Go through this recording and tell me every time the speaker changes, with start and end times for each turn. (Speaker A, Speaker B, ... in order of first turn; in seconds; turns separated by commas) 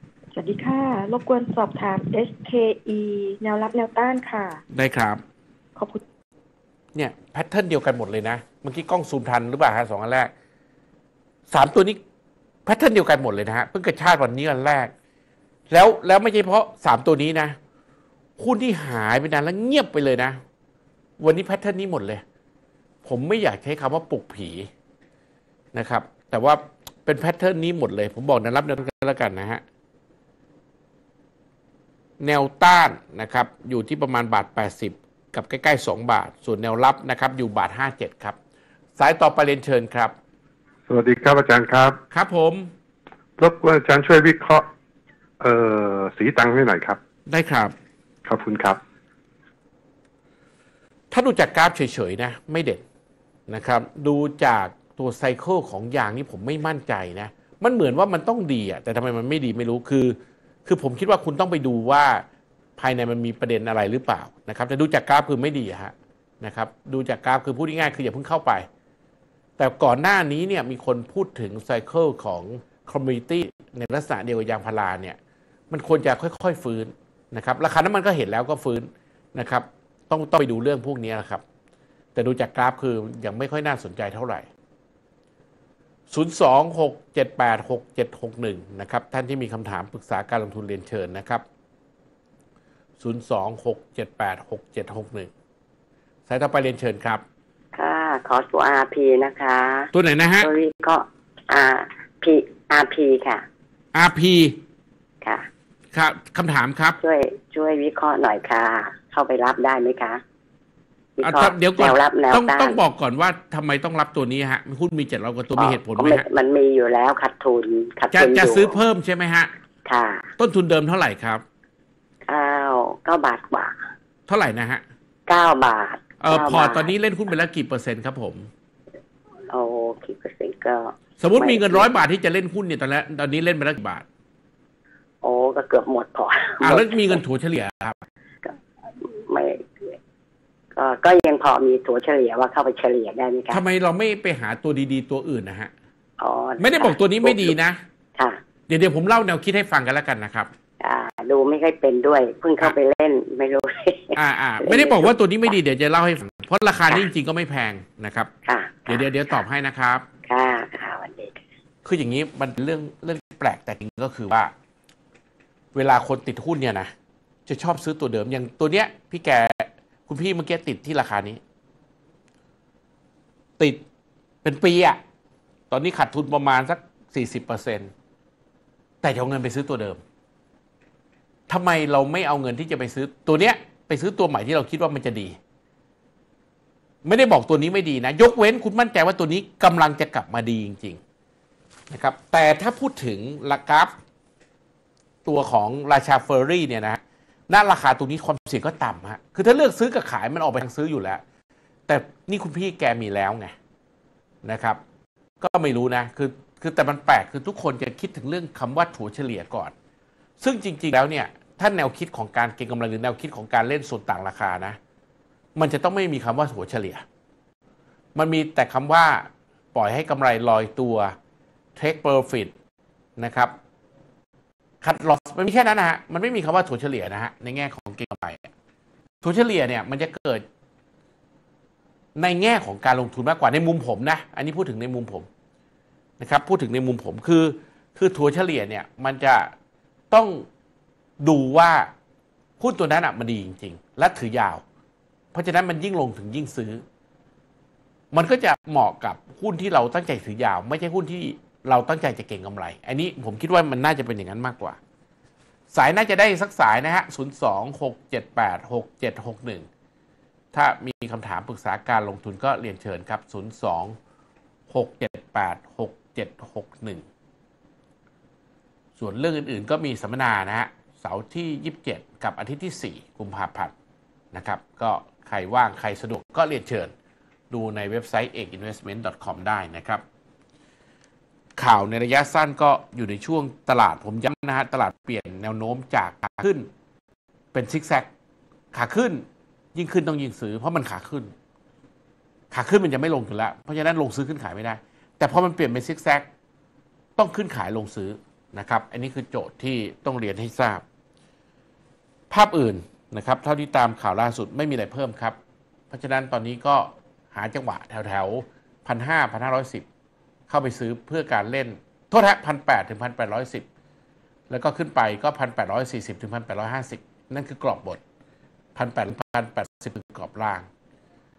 Speaker A: 0.3-4.6, Speaker B: 4.7-5.2, Speaker B: 6.9-10.3, Speaker B: 11.5-12.0, Speaker B: 12.7-14.9, Speaker B: 15.7-17.5, Speaker B: 18.4-20.4, Speaker B: 21.2-22.2, Speaker B: 23.0-24.7, Speaker B: 25.7-29.6, Speaker B: 32.2-38.4, Speaker B: 39.0-40.1, Speaker C: 40.9-42.0, Speaker B: 42.1-42.7, Speaker C: 43.4-44.6, Speaker C: 45.4-47.0, Speaker B: 47.3-47.7, Speaker C: 48.2-48.8, Speaker B: 51.1-52.8, Speaker B: 53.5-62.2, Speaker B: 62.8-68.7, Speaker B: 69.6-75.2, Speaker B: 75.7-81.4, Speaker B: 82.1-84.5, Speaker B: 86.1-91.4, Speaker B: 93.0-95.3, Speaker B: 96.3-97.2, Speaker D: 97.7-99.9, Speaker B: 99.9-100.5, Speaker D: 100.4-103.4, Speaker B: 103.9-104.6, Speaker D: 105.2-105.5, Speaker B: 105.9-107.0, Speaker D: 107.0-110.2, Speaker D: 111.2-112.8, Speaker B: 111.2-116.2, Speaker D: 115.6-118.8, Speaker B: 118.1-119.5, Speaker D: 119.8-120.3, Speaker B: 120.4-121.4, Speaker D: 122.3-123.7, Speaker B: 124.3-124.8, Speaker D: 125.3-126.9, Speaker B: 126.2-128.5, Speaker D: 129.5-132.0, Speaker B: 131.2-134.0, Speaker D: 135.2-137.2, Speaker B: 136.6-138.0, Speaker D: 138.4-139.9, Speaker D: 140.7-143.6, Speaker B: 143.5-145.7, Speaker D: 146.2-147.5, Speaker B: 146.6-147.8, Speaker B: 148.7-150.5, Speaker D: 150.8-155.1, Speaker B: 154.1-158.3, Speaker D: 158.4-159.1, Speaker B: 158.9-160.0, Speaker D: 160.2-161.3, Speaker B: 161.8-164.5, Speaker B: 165.7-166.9, Speaker B: 167.5-171.4, Speaker B: 174.4-175.0, Speaker B: 175.7-177.9, Speaker B: 179.0-180.0, Speaker B: 181.5-185.4, Speaker B: 187.0-191.0, Speaker B: 191.9-193.9, Speaker B: 195.2-201.2, Speaker B: 201.9-203.5, Speaker B: 204.4-204.8, Speaker B: 205.4-209.7, Speaker B: 210.4-214.8, Speaker B: 215.6-217.0, Speaker B: 218.2-221.1, Speaker B: 221.8-222.5, Speaker B: 223.2-223.5, Speaker B: 224.8-228.5, Speaker B: 229.2-230.4, Speaker B: 232.2-235.3, Speaker B: 236.2-239.5, Speaker B: 240.1-240.4, Speaker B: 241.2-241.9, Speaker B: 242.6-244.6, Speaker B: 245.3-246.8, Speaker B: 248.1-254.8, Speaker B: 255.7-259.6, Speaker B: 260.5-263.9, Speaker B: 264.7-267.0, Speaker B: 269.0-273.7, Speaker B: 274.3-276.9, Speaker B: 277.5-280.0, Speaker B: 281.6-286.7, Speaker B: 287.5-288.1, Speaker B: 288.7-289.2, Speaker B: 289.7-291.3, Speaker B: 292.5-296.2, Speaker B: 297.2-300.8, Speaker B: 302.3-305.4, Speaker B: 305.9-309.9, Speaker B: 310.5-313.6, Speaker B: 314.5-318.0, Speaker B: 318.7-320.6